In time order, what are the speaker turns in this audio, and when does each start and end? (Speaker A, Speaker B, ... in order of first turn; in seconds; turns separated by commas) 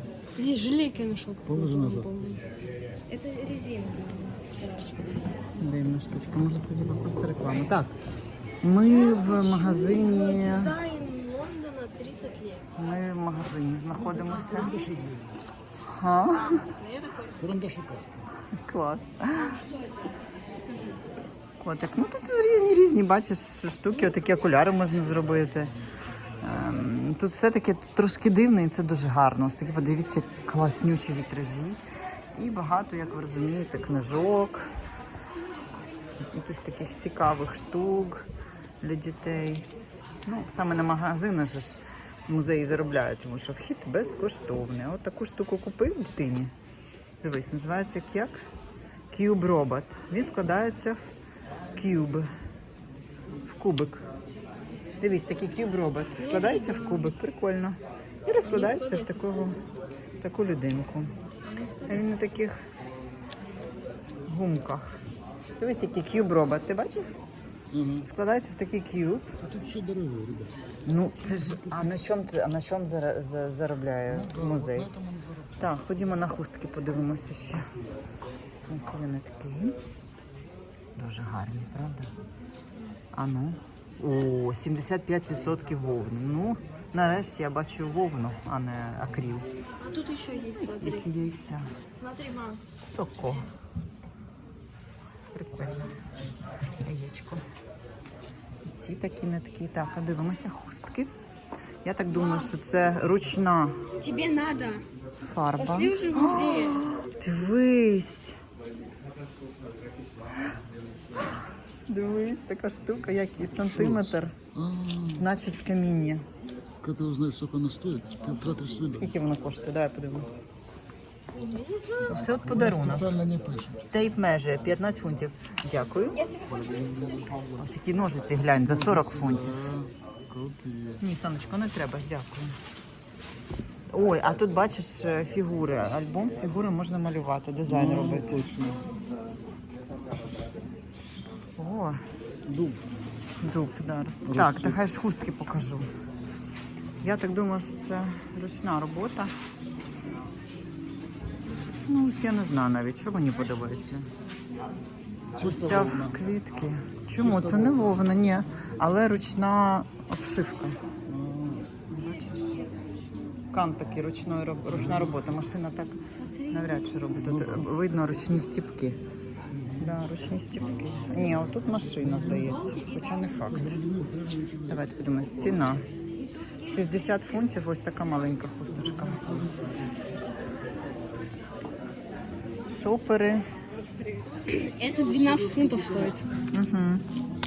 Speaker A: 0.3-2.4, Speaker B: 1.4-2.1, Speaker A: 3.1-5.1, Speaker C: 5.6-7.9, Speaker C: 8.6-10.8, Speaker A: 8.9-12.7, Speaker C: 12.8-14.7, Speaker B: 13.9-15.5, Speaker A: 14.5-14.8, Speaker C: 15.9-16.7, Speaker A: 16.3-17.4, Speaker B: 17.4-18.3, Speaker C: 18.5-19.6, Speaker A: 19.3-21.1, Speaker C: 21.6-25.7, Speaker C: 26.4-31.8, Speaker C: 32.3-34.7, Speaker C: 36.2-38.3, Speaker C: 38.8-39.7, Speaker C: 40.2-46.5, Speaker C: 47.2-48.4, Speaker C: 49.1-51.1, Speaker C: 51.7-52.3, Speaker C: 53.4-54.1, Speaker C: 55.0-59.6, Speaker A: 56.2-57.1, Speaker A: 58.4-59.3, Speaker C: 60.2-61.1, Speaker A: 61.4-62.1, Speaker C: 61.8-62.6, Speaker C: 64.2-65.0, Speaker C: 65.6-67.2, Speaker B: 67.7-68.1, Speaker C: 68.0-69.3, Speaker B: 69.4-70.6, Speaker C: 70.8-74.9, Speaker B: 71.2-72.0, Speaker B: 74.1-75.7, Speaker C: 75.6-77.7, Speaker C: 78.7-79.8, Speaker C: 81.0-82.1, Speaker C: 83.1-89.5, Speaker A: 89.8-91.1, Speaker C: 90.8-91.7, Speaker A: 91.9-92.6, Speaker C: 92.8-93.5, Speaker C: 95.3-95.9, Speaker C: 96.8-97.4, Speaker C: 98.6-101.1, Speaker C: 101.8-103.8, Speaker A: 104.0-104.8, Speaker C: 105.2-108.4, Speaker A: 105.6-106.8, Speaker C: 111.9-114.3, Speaker B: 113.5-115.3, Speaker C: 115.1-116.2, Speaker B: 116.8-119.2, Speaker C: 118.8-120.4, Speaker A: 121.4-122.2, Speaker C: 122.1-123.1, Speaker B: 122.1-123.9, Speaker C: 123.9-126.2, Speaker A: 126.2-126.7, Speaker B: 126.4-127.6, Speaker C: 127.6-129.6, Speaker B: 128.6-131.0, Speaker C: 131.0-132.5, Speaker C: 133.9-138.5, Speaker B: 137.7-138.9, Speaker C: 141.6-142.0, Speaker B: 142.5-142.8, Speaker C: 143.4-145.9, Speaker B: 144.2-144.8, Speaker C: 147.0-149.3, Speaker C: 151.9-154.1, Speaker B: 155.4-156.2, Speaker C: 155.4-160.8, Speaker B: 157.1-158.1, Speaker B: 161.1-161.8, Speaker C: 161.9-162.6, Speaker C: 163.5-169.0, Speaker B: 164.7-165.2, Speaker A: 166.1-166.6, Speaker B: 167.2-167.7, Speaker B: 169.5-170.0, Speaker C: 169.8-173.8, Speaker B: 170.7-172.5, Speaker B: 173.4-174.8, Speaker C: 174.7-175.8, Speaker C: 176.6-179.2, Speaker B: 178.7-179.8, Speaker C: 182.7-183.5, Speaker A: 183.7-186.3, Speaker B: 185.2-186.2, Speaker C: 186.5-187.0